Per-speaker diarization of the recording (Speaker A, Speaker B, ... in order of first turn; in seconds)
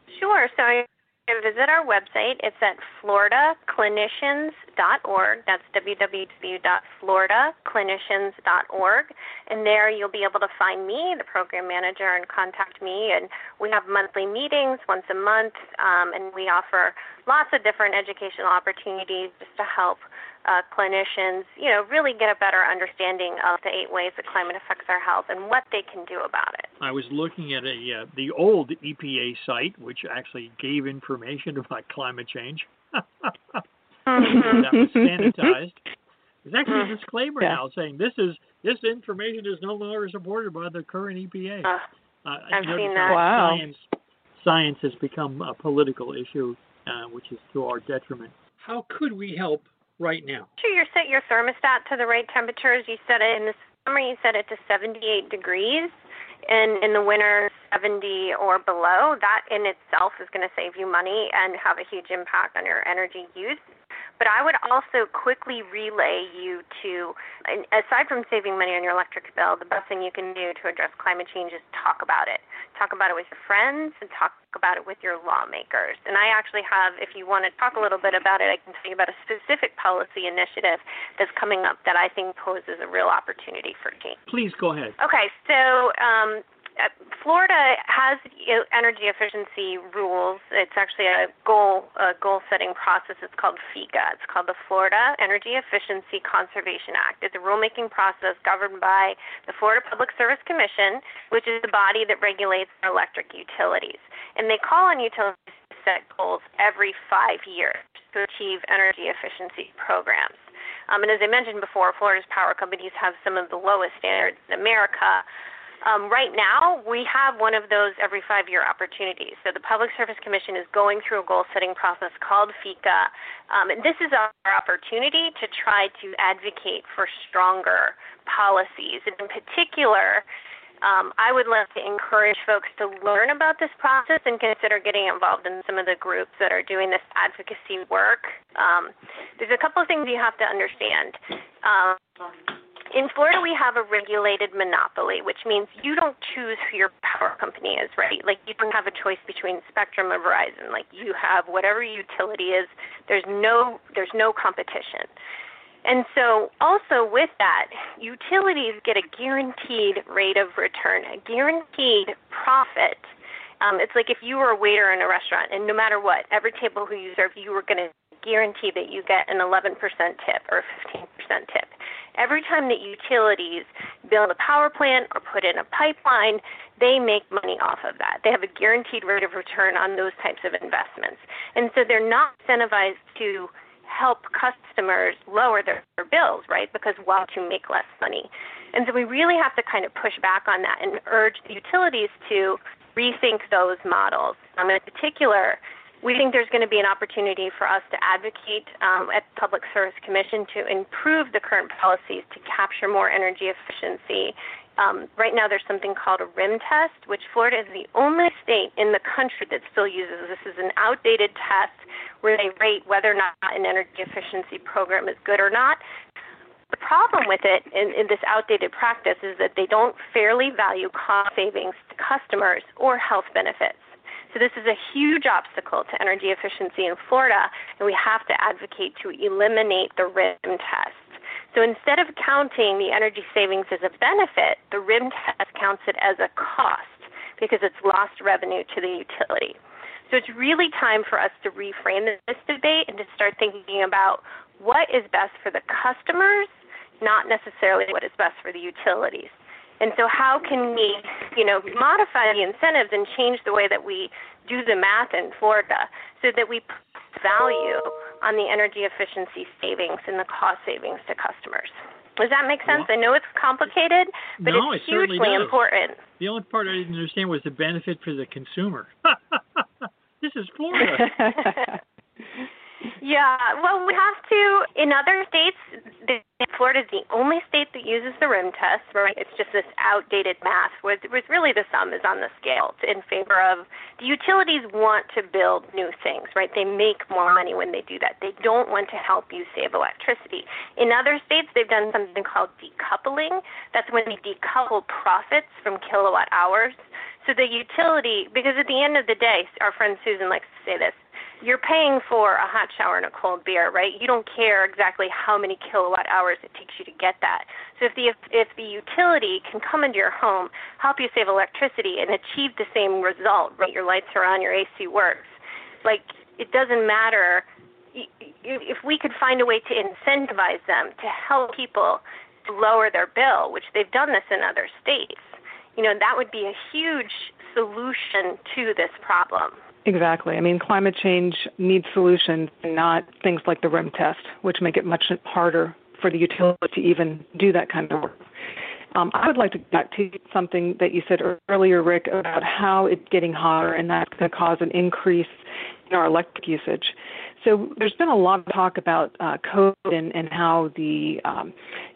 Speaker A: 0.1-26.7, 34.1-34.6, 42.5-43.4, 50.6-55.9, 56.5-63.6, 64.2-84.2, 85.0-115.2, 115.8-130.2, 130.8-142.3, 142.9-155.1, 155.8-163.1, 163.6-215.8, 216.7-239.6, 240.1-266.0, 271.4-271.6, 273.0-315.3, 315.8-329.6
Speaker B: 26.8-33.6, 34.3-35.8, 36.4-41.7, 42.2-43.8, 44.4-50.5, 84.3-85.0, 264.4-265.6, 266.2-271.1
Speaker C: 34.3-35.5, 43.1-43.6, 329.8-338.2, 338.9-351.5